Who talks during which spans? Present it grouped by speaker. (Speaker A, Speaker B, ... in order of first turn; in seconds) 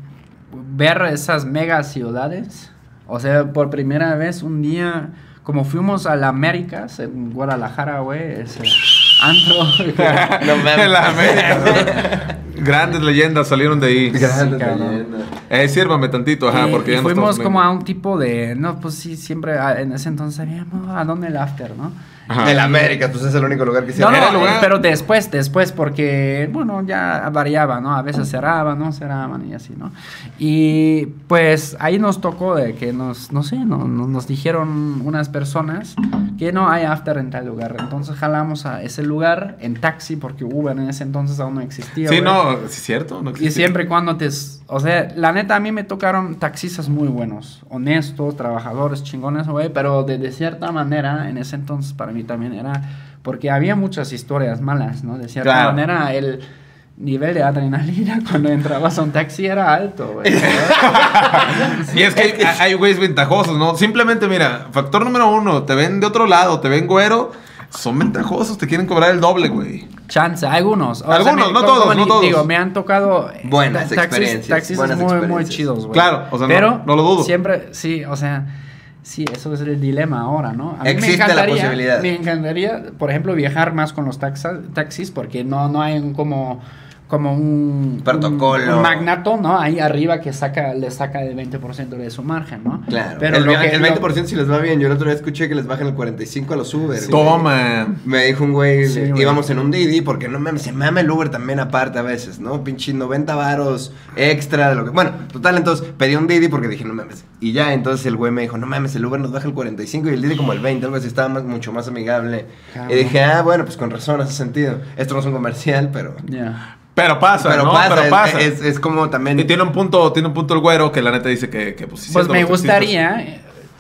Speaker A: 0.5-10.4, 14.1-15.0, 16.5-22.9, 23.9-42.4, 43.4-56.4, 57.0-61.9, 70.1-78.5, 79.0-94.0, 98.8-99.4, 112.7-113.2, 116.2-116.6, 122.1-123.5
Speaker B: 10.0-14.3, 15.5-17.6, 22.3-22.6, 24.1-24.7, 42.0-43.7, 55.4-55.8, 60.4-69.9, 71.1-72.5, 75.9-77.3, 97.1-98.0, 117.0-118.5, 119.3-122.9
Speaker C: 10.4-12.4, 14.1-15.4, 22.4-24.6, 60.2-62.6, 73.4-75.6, 80.8-82.1, 88.0-89.0, 92.9-97.5, 98.0-116.2, 117.3-119.5